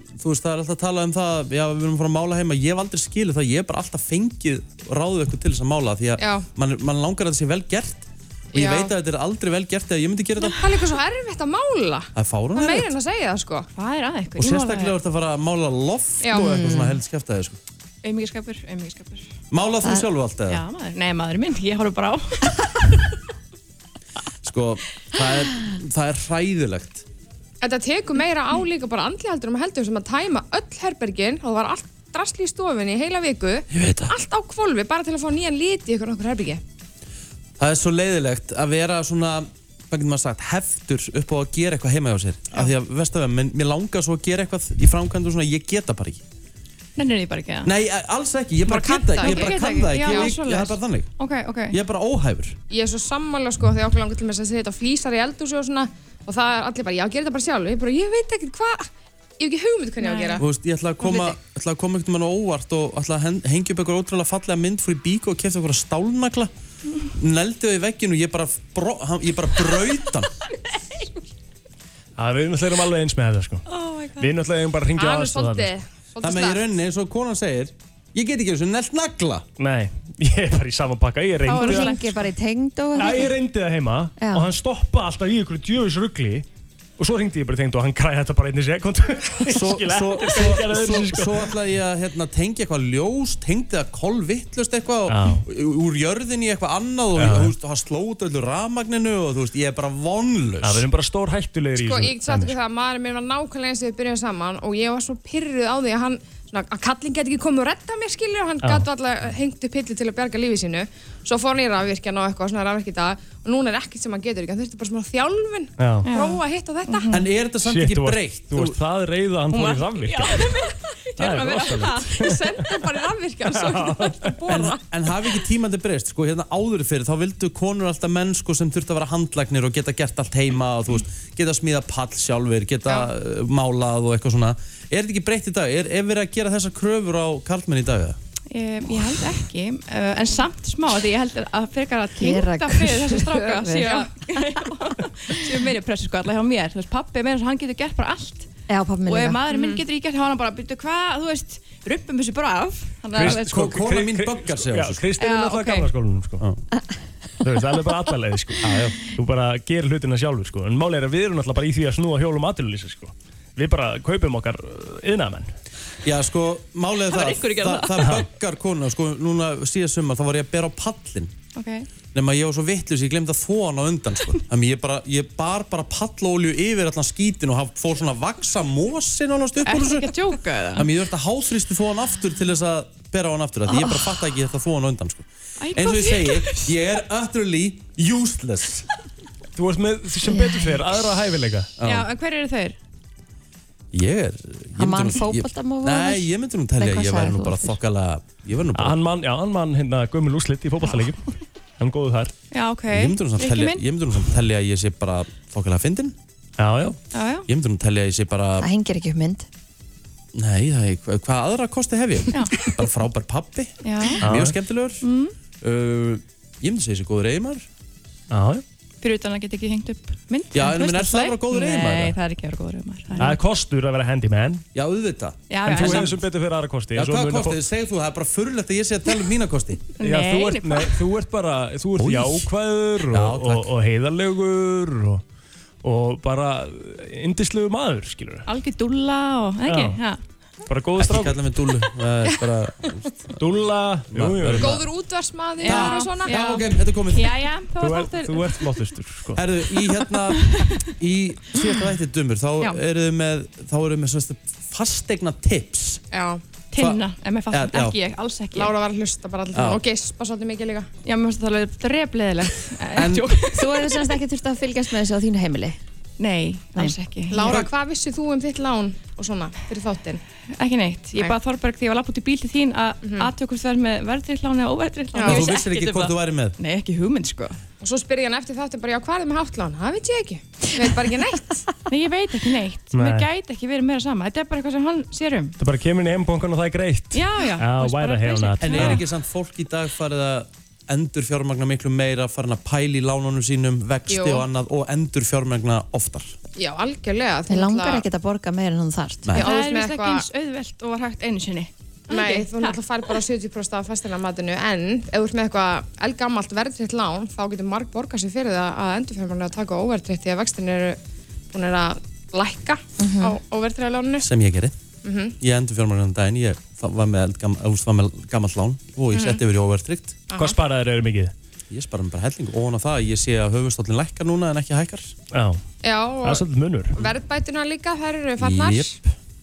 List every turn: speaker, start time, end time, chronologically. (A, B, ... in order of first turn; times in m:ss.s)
0:00.2-0:10.6 A
0:06.2-0:06.5 B
0:08.5-0:08.9 B
0:10.4-0:13.7 B
0:12.2-0:12.9 A
0:13.7-0:15.0 C
0:14.4-0:17.6 A
0:16.2-0:16.8 B
0:18.0-0:19.3 C
0:19.5-0:20.6 A
0:20.5-0:22.7 C
0:24.4-0:27.1 A
0:27.6-0:36.6 B
0:33.7-0:34.1 A
0:37.6-0:46.2 A
0:47.0-0:47.7 C
0:47.6-0:51.1 A
0:48.7-0:50.4 B
0:49.0-0:51.8 C
0:51.7-0:52.6 A
0:52.7-1:00.4 B
1:00.0-1:00.4 C
1:00.4-1:06.5 A
1:01.0-1:01.3 C
1:07.1-1:10.3 A
1:12.2-1:13.6 D
1:13.7-1:14.3 C
1:14.2-1:15.7 D
1:15.0-1:16.7 B
1:16.2-1:19.4 A
1:19.6-1:22.0 D
1:21.5-1:23.3 E
1:23.0-1:26.5 D
1:24.2-1:24.5 E
1:27.0-1:31.5 D
1:29.5-1:40.9 A
1:35.1-1:35.4 D
1:37.2-1:37.5 D
1:40.6-1:42.6 D
1:41.8-1:57.1 B
1:48.6-1:48.9 D
1:55.8-1:56.1 D
1:56.0-1:57.3 C
1:57.1-1:58.8 A
1:57.6-2:00.5 D
1:59.5-2:02.3 C
2:01.2-2:02.8 D
2:02.1-2:04.8 B
2:03.5-2:04.6 D
2:04.5-2:18.2 A
2:18.5-2:28.5 C
2:22.2-2:24.1 E
2:28.7-2:29.4 E
2:29.1-2:33.6 C
2:29.5-2:29.8 B
2:33.2-2:35.1 A
2:33.2-2:36.4 D
2:35.2-2:35.9 C
2:37.4-2:45.5 D
2:38.6-2:39.0 A
2:46.0-2:51.3 A
2:47.1-2:48.1 C
2:48.0-2:48.3 D
2:51.6-2:51.9 C
2:52.1-3:00.2 A
2:59.6-3:00.9 C
3:00.7-3:08.9 A
3:03.7-3:04.1 C
3:05.6-3:06.7 C
3:09.6-3:11.7 D
3:10.3-3:10.6 E
3:11.8-3:12.1 A
3:11.8-3:12.8 C
3:13.9-3:19.0 A
3:14.8-3:17.8 E
3:18.8-3:22.3 D
3:22.5-3:23.9 C
3:22.9-3:26.2 A
3:26.6-3:27.0 D
3:27.1-3:27.5 C
3:27.5-3:28.7 A
3:28.6-3:29.5 E
3:30.3-3:35.0 A
3:32.3-3:32.7 C
3:33.8-3:34.2 C
3:34.2-3:34.6 D
3:35.0-3:35.4 C
3:35.6-3:37.7 A
3:38.3-3:38.6 D
3:39.0-3:43.4 C
3:40.5-3:42.2 A
3:43.2-3:44.6 D
3:44.7-3:46.2 A
3:45.5-3:46.2 C
3:45.6-3:47.6 D
3:47.0-3:49.9 A
3:50.0-3:51.0 C
3:50.0-3:55.2 D
3:52.0-3:52.5 A
3:53.1-3:53.7 A
3:55.8-3:58.5 D
3:58.5-4:00.2 C
3:59.6-4:00.0 D
4:00.7-4:01.4 D
4:01.0-4:03.4 A
4:03.4-4:04.8 D
4:04.1-4:04.8 A
4:04.6-4:06.6 B
4:05.6-4:08.7 C
4:05.6-4:07.4 A
4:07.8-4:09.5 D
4:09.4-4:16.0 A
4:10.3-4:10.9 C
4:16.1-4:16.4 B
4:16.7-4:18.7 C
4:17.5-4:18.0 A
4:18.5-4:20.9 B
4:19.5-4:19.8 A
4:21.0-4:24.0 C
4:22.9-4:23.3 A
4:23.5-4:25.8 E
4:26.2-4:27.6 C
4:27.3-4:30.2 B
4:27.4-4:27.7 A
4:30.6-4:37.6 C
4:33.0-4:33.3 B
4:35.1-4:35.6 B
4:35.2-4:36.6 A
4:37.8-4:41.6 B
4:41.9-4:45.6 C
4:42.9-4:43.3 D
4:45.6-4:49.0 D
4:47.1-4:49.0 C
4:48.6-4:56.4 A
4:54.1-4:54.5 B
4:56.6-4:58.0 B
4:57.5-4:59.3 E
4:59.2-4:59.5 A
4:59.3-5:00.3 B
4:59.4-5:03.1 C
5:02.1-5:11.0 B
5:11.5-5:14.3 B
5:13.0-5:13.4 E
5:14.2-5:14.8 A
5:15.0-5:15.4 B
5:15.4-5:20.2 A
5:19.1-5:19.4 B
5:20.3-5:20.6 B
5:20.4-5:21.3 D
5:21.7-5:25.1 A
5:25.3-5:25.6 D
5:25.8-5:29.0 B
5:26.2-5:27.0 D
5:28.4-5:29.1 A